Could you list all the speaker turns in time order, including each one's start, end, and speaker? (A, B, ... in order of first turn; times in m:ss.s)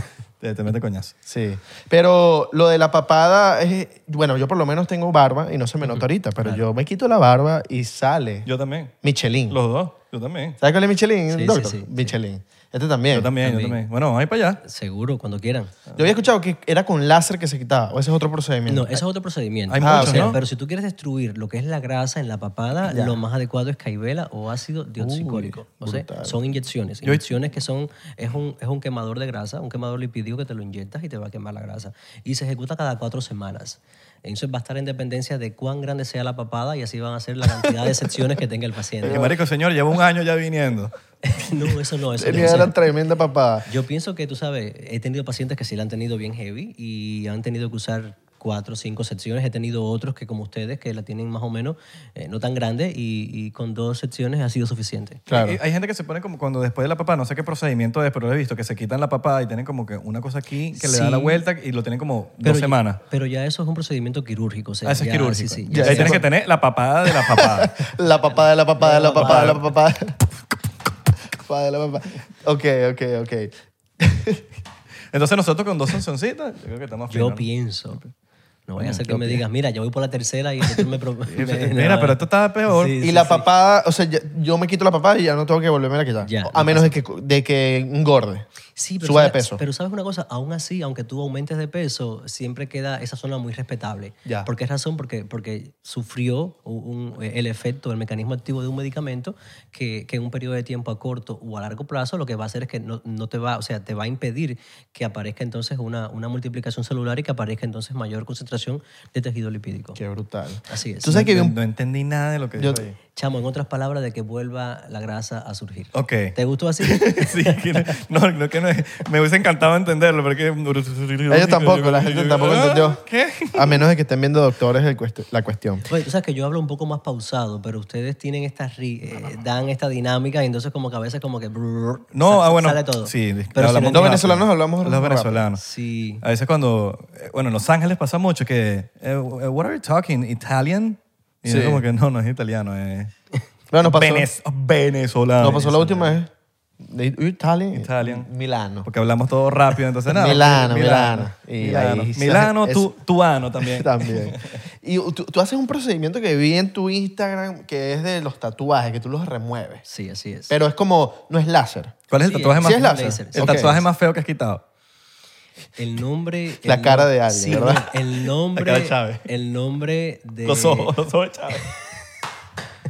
0:00.4-0:01.1 A
0:01.2-0:08.5 B
0:05.8-0:06.6 C
0:08.4-0:08.9 A
0:09.0-0:09.6 B
0:09.5-0:10.6 A
0:10.6-0:13.3 B
0:11.3-0:12.2 C
0:13.1-0:14.6 A
0:13.4-0:13.8 C
0:14.6-0:15.7 C
0:16.0-0:19.0 B
0:18.7-0:39.2 C
0:19.7-0:20.4 A
0:19.8-0:20.3 B
0:22.9-0:23.2 B
0:25.0-0:26.4 B
0:27.0-0:27.3 A
0:39.0-0:39.4 B
0:39.0-0:40.9 A
0:41.2-0:42.8 C
0:42.2-0:43.7 B
0:43.7-0:55.2 C
0:55.3-0:55.6 B
0:55.3-1:03.0 A
1:00.7-1:01.4 C
1:02.4-1:06.2 C
1:04.8-1:07.9 A
1:05.7-1:06.3 B
1:07.0-1:10.2 B
1:08.8-1:09.6 C
1:09.1-1:09.6 A
1:11.3-1:14.4 B
1:15.1-1:18.1 A
1:17.1-1:18.0 C
1:18.7-1:23.4 C
1:18.8-1:19.4 A
1:21.3-1:23.0 A
1:23.0-1:28.4 B
1:26.2-1:27.0 C
1:28.7-1:50.0 C
1:29.0-1:29.6 B
1:50.0-1:51.6 B
1:50.7-1:51.2 C
1:51.0-1:52.9 A
1:52.6-1:52.9 B
1:53.1-1:58.0 C
1:55.9-2:03.8 A
2:01.3-2:03.0 B
2:03.5-2:05.9 B
2:05.8-2:14.2 C
2:12.1-2:15.6 A
2:13.9-2:15.5 B
2:15.6-2:16.2 C
2:16.2-2:23.1 A
2:21.4-2:21.8 B
2:23.7-2:24.3 B
2:23.8-2:26.2 A
2:25.4-2:28.9 B
2:27.7-2:28.3 A
2:28.8-2:34.6 A
2:30.1-2:32.9 B
2:33.6-2:39.8 B
2:39.8-2:40.6 C
2:40.5-2:42.0 B
2:42.1-2:44.6 A
2:42.2-2:43.8 C
2:42.6-2:43.8 B
2:45.8-2:50.9 C
2:46.6-2:48.0 B
2:48.6-2:48.9 A
2:48.6-2:49.2 B
2:50.4-2:51.7 A